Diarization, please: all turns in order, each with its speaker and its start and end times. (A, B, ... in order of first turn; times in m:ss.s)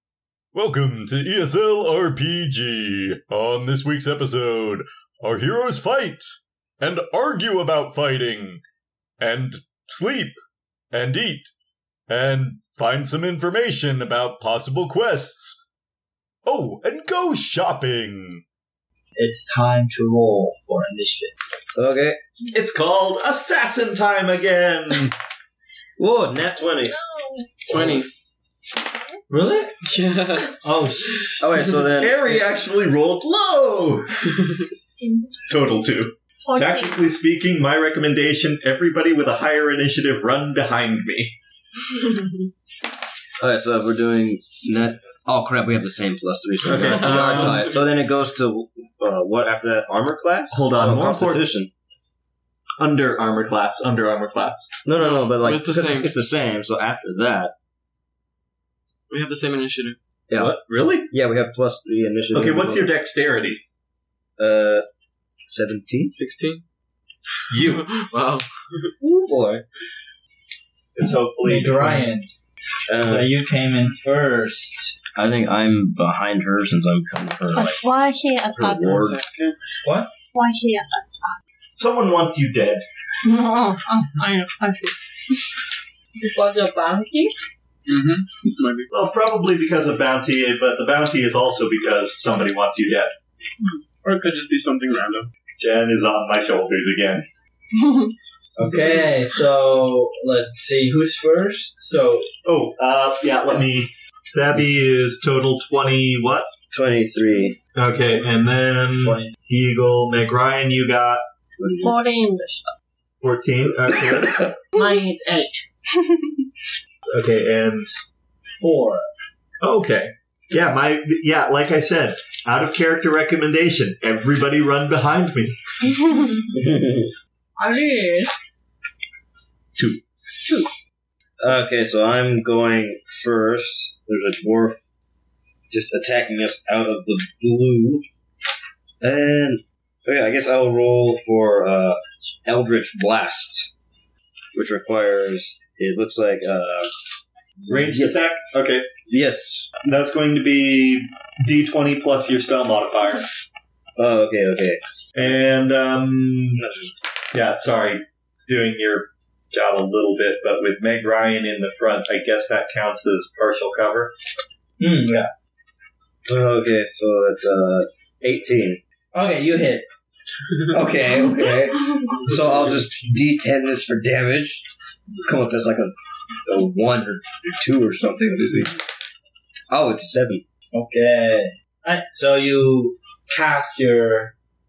0:00.5-0:08.6 A
0:09.2-0:10.4 A
0:10.9-0:11.5 A
0:12.1-0:15.6 A
0:16.4-0:18.4 A
0:19.2-0:21.3 B
0:21.8-0:22.2 C
0:22.5-0:25.1 D
0:26.0-0:27.0 C
0:26.9-0:27.5 E
0:27.7-0:28.1 F
0:29.3-0:29.7 B
0:29.8-0:30.6 F
0:31.0-0:32.5 C
0:31.9-0:34.2 D
0:35.0-0:35.4 E
0:35.4-0:41.3 D
0:36.4-0:37.1 E
0:43.4-0:51.7 C
0:46.6-0:47.7 D
0:46.8-0:47.8 F
0:50.5-0:51.4 D
0:52.8-0:54.7 D
0:54.8-0:57.5 C
0:55.0-0:56.1 F
0:59.1-1:00.0 F
1:00.3-1:00.6 C
1:00.3-1:01.1 D
1:01.1-1:02.9 C
1:02.3-1:03.6 D
1:04.4-1:04.8 C
1:05.4-1:06.1 C
1:06.1-1:06.6 F
1:07.5-1:08.9 F
1:09.0-1:09.6 C
1:10.9-1:12.1 D
1:11.4-1:12.3 B
1:12.9-1:13.3 C
1:13.0-1:14.9 B
1:15.1-1:17.8 C
1:17.6-1:19.1 E
1:18.6-1:19.2 C
1:18.8-1:19.6 F
1:19.8-1:20.1 B
1:20.3-1:21.4 E
1:21.8-1:22.8 D
1:23.2-1:25.0 E
1:26.2-1:27.3 G
1:27.9-1:28.9 F
1:28.9-1:33.1 D
1:34.0-1:35.3 F
1:35.6-1:37.2 D
1:38.6-1:42.3 B
1:42.4-1:46.5 D
1:46.7-1:47.6 C
1:47.8-1:51.2 D
1:49.0-1:49.3 B
1:51.6-1:52.0 C
1:51.8-1:52.7 E
1:53.2-1:54.6 D
1:54.8-1:55.0 E
1:54.8-1:55.6 G
1:57.1-1:57.9 D
1:58.6-1:59.1 B
1:59.6-2:05.6 D
2:06.5-2:07.1 C
2:07.6-2:08.3 G
2:09.8-2:10.0 D
2:11.4-2:14.8 C
2:15.7-2:18.0 C
2:19.0-2:23.7 C
2:24.5-2:26.9 C
2:27.7-2:28.2 C
2:27.7-2:28.9 D
2:29.1-2:29.7 C
2:29.8-2:33.3 D
2:34.0-2:34.8 C
2:35.2-2:36.6 D
2:36.5-2:36.9 C
2:37.3-2:44.1 D
2:44.8-2:45.3 B
2:46.2-2:48.8 C
2:49.1-2:49.8 B
2:50.7-2:54.7 C
2:52.3-2:52.8 F
2:55.2-2:58.7 C
2:59.7-3:00.4 C
3:00.7-3:04.3 B